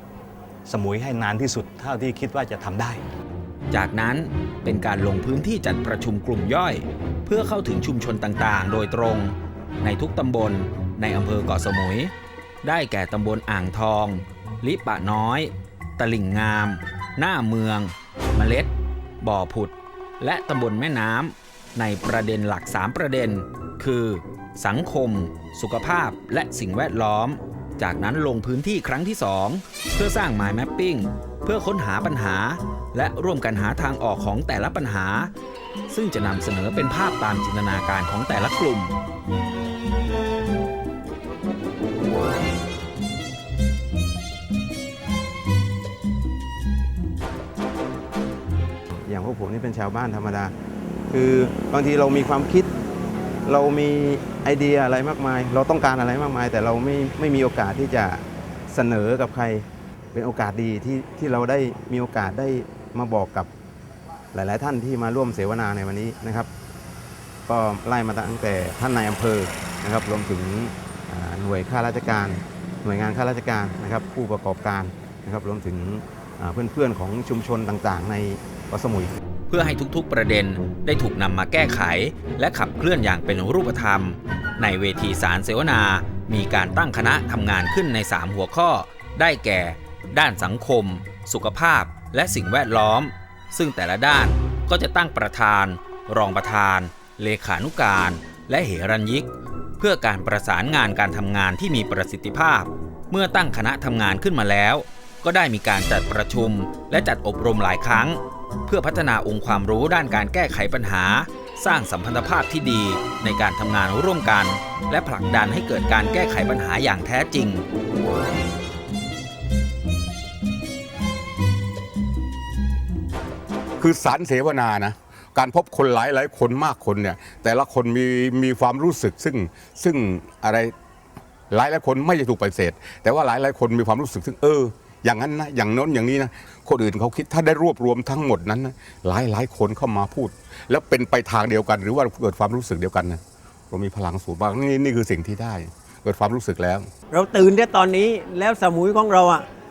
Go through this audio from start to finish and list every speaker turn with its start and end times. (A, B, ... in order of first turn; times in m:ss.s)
0:00.7-0:03.0 A
0:03.7-0:12.1 B
0:12.6-0:35.3 B
0:35.9-0:39.0 B
0:48.9-0:50.5 C
0:51.1-0:52.7 C
0:53.5-1:03.5 C
1:04.3-1:06.5 C
1:07.5-1:19.1 C
1:19.5-1:57.7 B
2:03.8-2:10.7 D
2:11.5-2:23.2 D
2:23.7-2:26.9 D
2:27.1-2:29.4 E